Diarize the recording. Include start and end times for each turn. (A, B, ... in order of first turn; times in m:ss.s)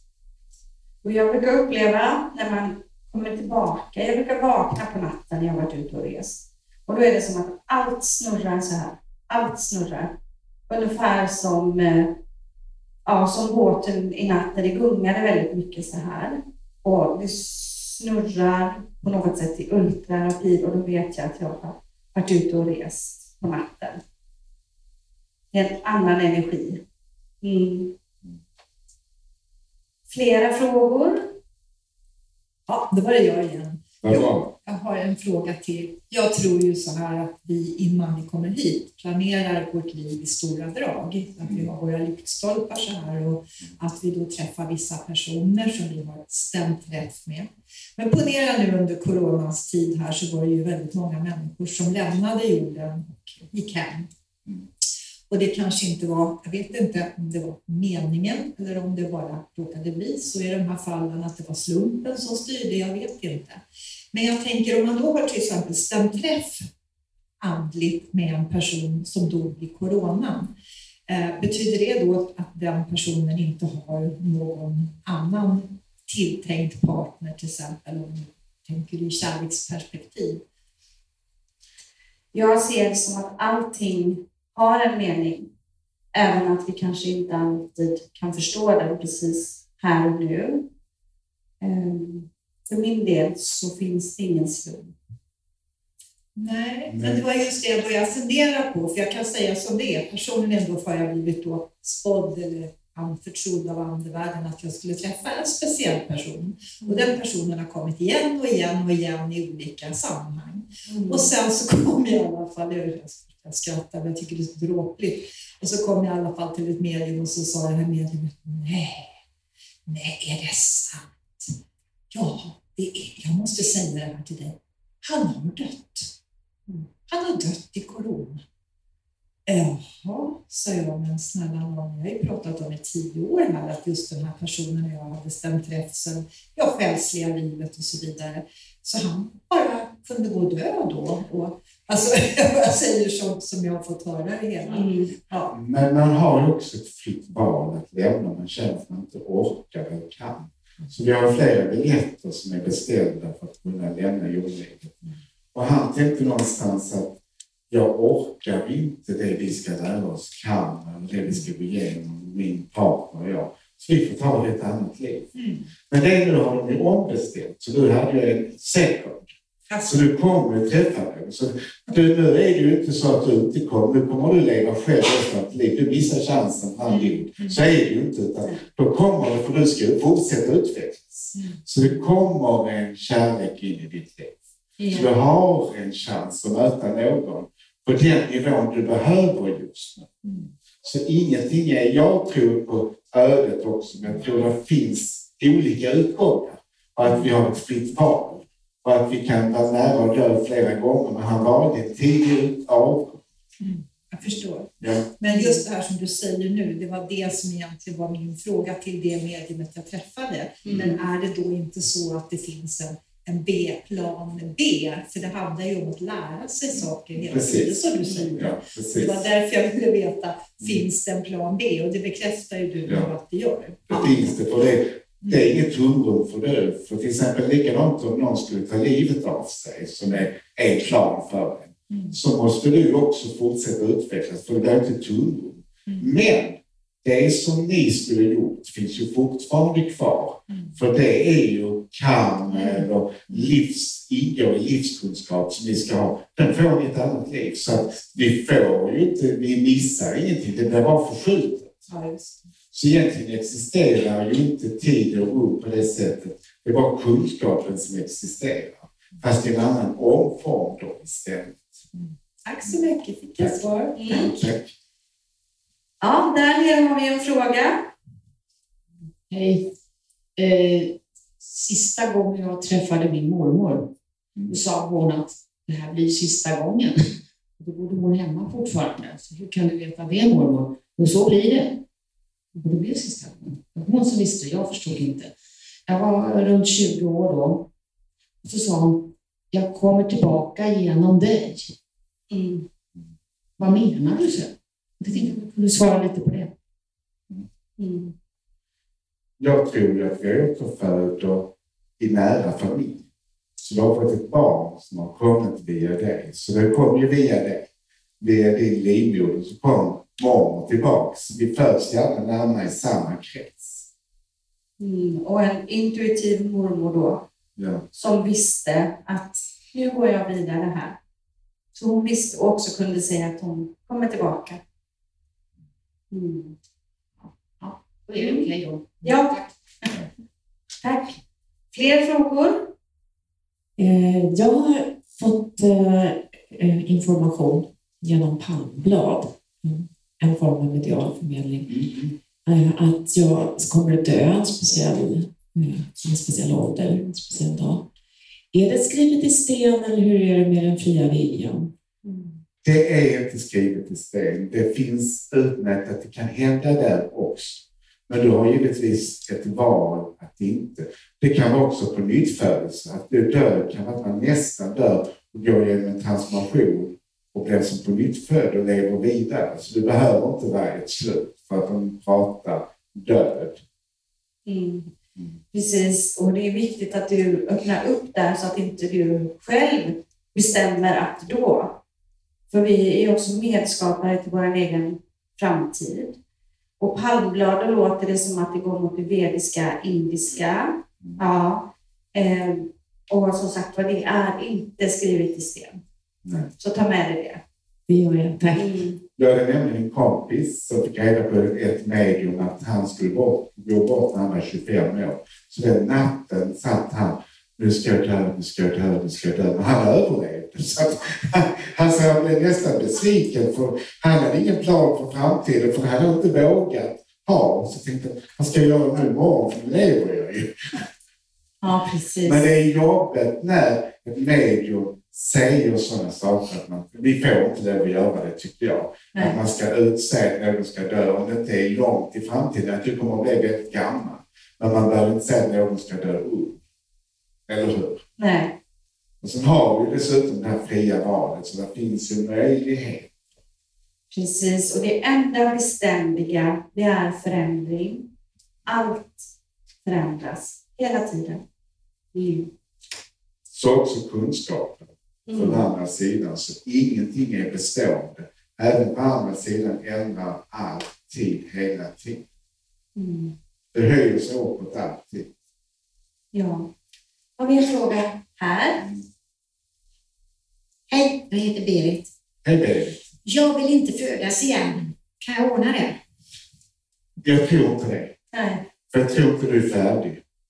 0:01.0-0:10.1 A
0:10.7-0:12.2 A
0:13.0-0:24.0 A
0:25.5-0:26.8 A
0:27.4-0:27.9 A
0:30.1-0:31.4 A
0:32.7-0:54.1 B
0:34.0-0:34.5 C
0:41.4-0:41.7 C
0:55.3-1:06.7 B
1:07.4-1:10.5 B
1:11.1-1:20.4 B
1:22.3-1:25.5 A
1:26.1-1:30.7 A
1:31.6-1:35.0 A
1:36.3-1:59.2 B
1:36.8-1:37.2 C
1:46.8-1:47.1 A
1:50.9-1:51.3 A
1:59.8-2:01.5 B
2:02.1-2:06.1 B
2:07.1-2:08.4 B
2:09.5-2:25.5 B
2:24.7-2:25.1 A
2:25.5-2:35.0 C
2:35.5-2:37.1 C
2:37.7-2:45.3 C
2:45.3-2:45.7 B
2:45.9-2:49.2 C
2:49.7-2:50.0 B
2:49.8-3:04.4 C
2:56.9-2:57.3 A
3:01.3-3:01.6 B
3:04.8-3:05.1 A
3:04.9-3:10.1 C
3:10.2-3:10.5 B
3:10.8-3:23.2 C
3:17.0-3:17.3 B
3:23.6-3:44.4 B
3:24.8-3:25.0 C
3:25.3-3:25.6 A
3:30.6-3:30.9 C
3:30.7-3:31.0 A
3:36.7-3:37.8 C
3:38.0-3:38.4 A
3:38.3-3:39.3 C
3:42.8-3:43.1 C
3:43.9-4:11.8 C
3:45.2-3:45.5 B
3:51.9-3:52.2 B
3:55.9-3:56.1 B
4:00.5-4:00.7 B
4:02.5-4:03.5 B
4:11.9-4:12.4 B
4:12.7-4:21.7 C
4:21.9-4:24.0 B
4:23.4-4:24.7 C
4:24.0-4:24.3 A
4:26.0-4:27.9 A
4:29.3-4:29.6 D
4:30.4-4:33.9 D
4:34.5-4:37.0 D
4:37.6-4:41.8 D
4:42.5-4:45.3 D
4:45.9-4:47.6 D
4:48.4-4:51.7 D
4:52.3-4:52.6 A
4:53.6-4:56.5 D
4:55.1-4:55.3 A
4:57.8-4:58.1 A
4:59.4-5:03.0 C
5:03.6-5:07.7 C
5:08.2-5:13.8 C
5:14.8-5:17.2 A
5:17.6-5:17.8 C
5:17.9-5:21.0 A
5:21.7-5:24.6 A
5:26.1-5:26.6 A
5:27.2-5:29.4 D
5:28.1-5:28.5 A
5:29.0-5:29.3 A
5:30.8-5:31.2 A
5:31.7-5:32.7 A
5:33.8-5:41.7 E
5:41.6-5:42.2 C
5:42.4-5:47.8 E
5:48.5-5:51.7 E
5:52.0-5:52.4 A
5:52.6-6:13.6 C
6:14.4-6:14.9 A
6:15.5-6:21.8 A
6:22.5-6:26.2 A
6:26.8-6:35.8 A
6:36.2-6:36.5 C
6:36.6-6:37.4 A
6:37.9-6:38.8 E
6:38.5-6:39.0 A
6:39.2-7:00.8 C
7:01.6-7:02.4 A
7:02.2-7:16.6 C
7:17.5-7:18.0 C
7:18.2-7:18.5 A
7:19.2-7:23.1 C
7:24.1-7:28.1 A
7:28.6-7:29.3 A
7:29.8-7:31.4 A
7:32.1-7:32.5 A
7:33.5-7:42.2 C
7:35.3-7:35.6 A
7:42.9-7:43.3 A
7:43.7-7:45.3 C
7:46.3-7:46.7 A
7:47.4-7:48.8 A
7:48.8-7:49.0 C
7:50.9-7:52.1 F
7:52.4-7:53.0 C
7:53.2-7:56.0 F
7:57.2-7:58.1 C
7:58.3-7:58.6 A
7:58.9-8:00.2 C